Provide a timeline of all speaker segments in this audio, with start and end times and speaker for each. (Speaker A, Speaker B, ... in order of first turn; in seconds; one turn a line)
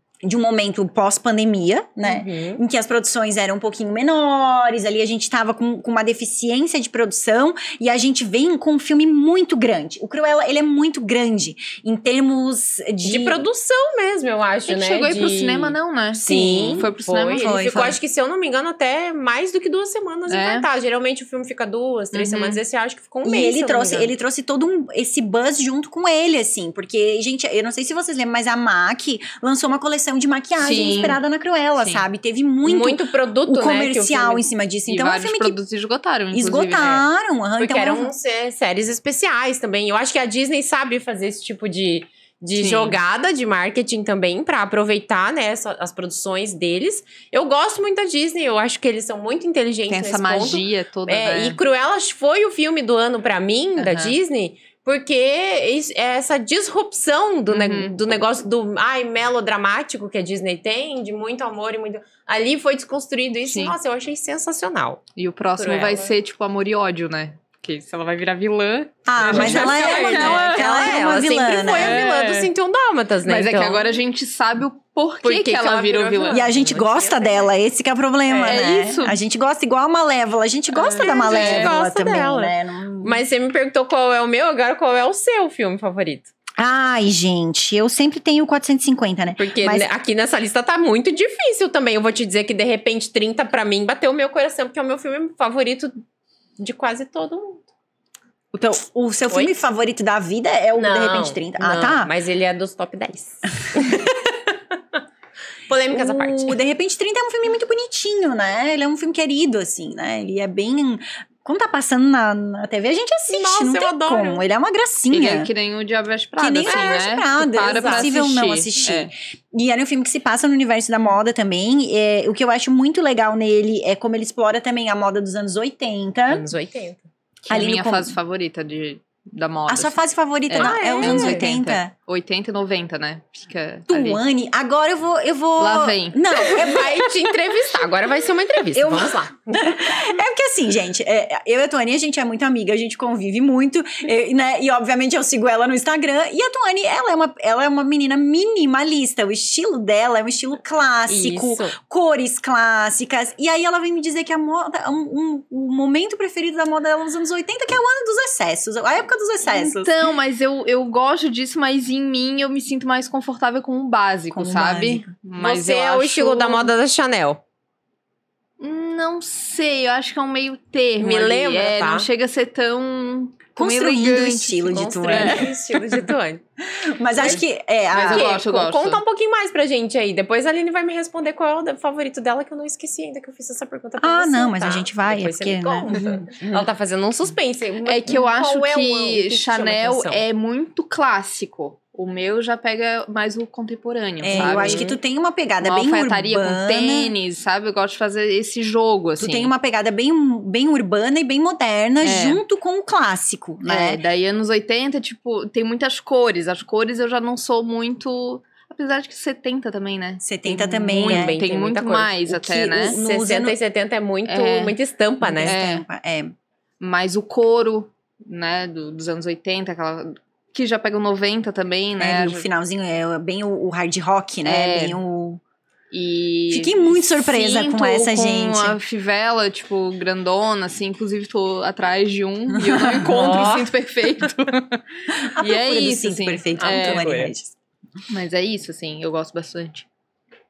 Speaker A: 0.2-13.4
Speaker B: 2.0-2.6
Speaker B: 13.0-24.1
Speaker C: 14.7-17.9
Speaker A: 16.2-16.9
Speaker A: 17.4-17.9
Speaker C: 20.3-20.7
Speaker C: 22.1-22.6
Speaker A: 23.2-35.6
Speaker C: 30.6-31.2
Speaker C: 31.8-32.0
Speaker B: 32.6-34.4
Speaker C: 34.9-37.1
Speaker A: 36.3-38.1
Speaker B: 37.6-65.0
Speaker C: 42.5-43.0
Speaker C: 49.9-51.6
Speaker C: 53.8-54.1
Speaker C: 57.5-57.9
Speaker C: 63.5-63.7
Speaker C: 65.2-71.0
Speaker B: 65.6-66.2
Speaker A: 69.1-72.1
Speaker B: 69.2-73.9
Speaker C: 71.7-72.5
Speaker C: 73.2-76.4
Speaker B: 75.2-77.5
Speaker A: 76.3-83.2
Speaker B: 78.3-78.7
Speaker C: 78.4-79.2
Speaker C: 80.8-81.8
Speaker B: 80.8-86.3
Speaker A: 86.6-89.9
Speaker B: 89.4-96.0
Speaker B: 96.6-97.7
Speaker A: 98.5-102.1
Speaker B: 99.3-99.6
Speaker B: 100.8-104.1
Speaker A: 103.7-104.2
Speaker B: 105.7-106.6
Speaker A: 105.9-115.5
Speaker B: 113.3-114.4
Speaker C: 115.1-119.1
Speaker A: 116.4-126.5
Speaker B: 116.7-118.1
Speaker B: 126.3-127.0
Speaker C: 127.5-134.2
Speaker A: 127.5-128.2
Speaker A: 129.7-131.9
Speaker B: 130.6-131.4
Speaker A: 133.9-137.1
Speaker C: 135.6-136.2
Speaker B: 136.3-139.7
Speaker A: 138.7-160.0
Speaker B: 151.1-151.8
Speaker C: 159.5-166.7
Speaker A: 164.3-165.1
Speaker B: 165.4-167.4
Speaker C: 168.6-175.5
Speaker B: 171.0-172.1
Speaker A: 173.6-176.1
Speaker B: 174.7-176.4
Speaker A: 176.7-178.3
Speaker C: 177.9-179.0
Speaker B: 178.1-190.2
Speaker A: 184.0-186.6
Speaker C: 187.8-194.9
Speaker A: 194.2-197.1
Speaker B: 194.2-195.0
Speaker C: 195.6-199.5
Speaker A: 199.2-204.0
Speaker C: 202.0-202.4
Speaker C: 203.7-213.0
Speaker A: 210.2-211.4
Speaker B: 210.9-212.2
Speaker A: 212.3-213.6
Speaker B: 212.8-215.6
Speaker C: 214.3-214.8
Speaker A: 215.2-216.3
Speaker C: 215.4-215.8
Speaker C: 216.8-222.5
Speaker A: 222.0-225.4
Speaker C: 224.4-225.0
Speaker C: 225.9-237.3
Speaker A: 226.5-228.8
Speaker A: 232.6-233.4
Speaker B: 233.0-233.7
Speaker A: 235.1-237.5
Speaker B: 236.6-237.3
Speaker C: 238.1-239.8